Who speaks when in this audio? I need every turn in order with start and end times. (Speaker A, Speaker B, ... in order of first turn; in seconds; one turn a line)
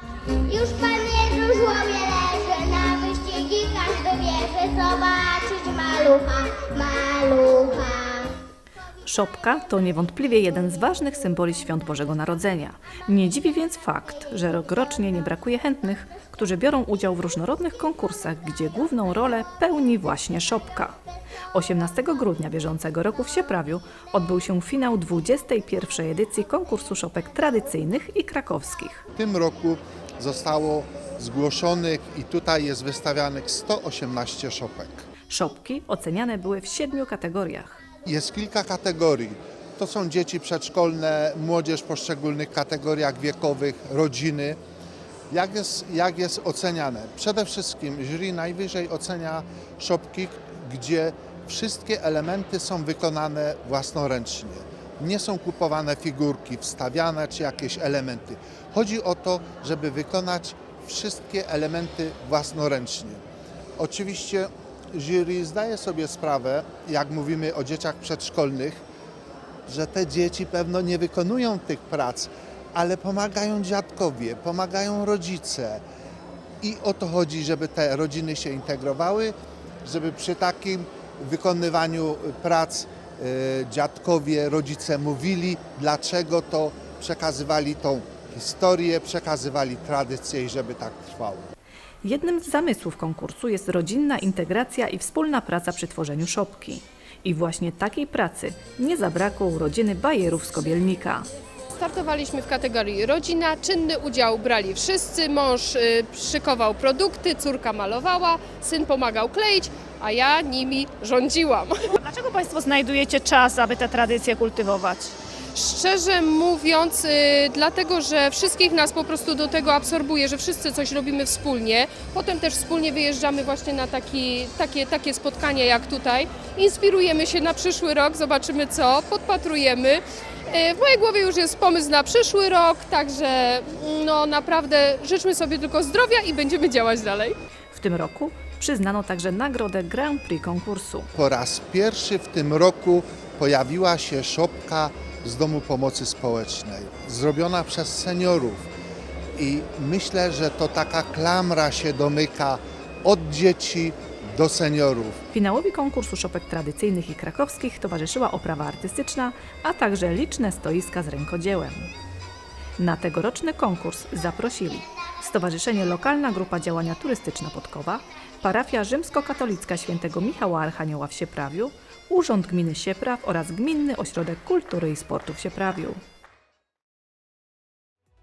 Speaker A: 0.4-8.3
Speaker B: 9.1-21.0
Speaker B: 21.5-29.1
Speaker C: 29.2-35.0
Speaker B: 35.3-37.8
Speaker C: 38.0-44.6
Speaker C: 45.3-63.2
Speaker C: 63.8-68.8
Speaker C: 69.7-75.8
Speaker C: 76.6-91.5
Speaker B: 92.0-101.3
Speaker D: 101.7-111.8
Speaker E: 112.0-115.1
Speaker D: 115.5-137.4
Speaker B: 137.7-141.1
Speaker C: 141.2-148.7
Speaker C: 149.4-155.2
Speaker B: 155.3-161.9
Speaker B: 162.8-176.0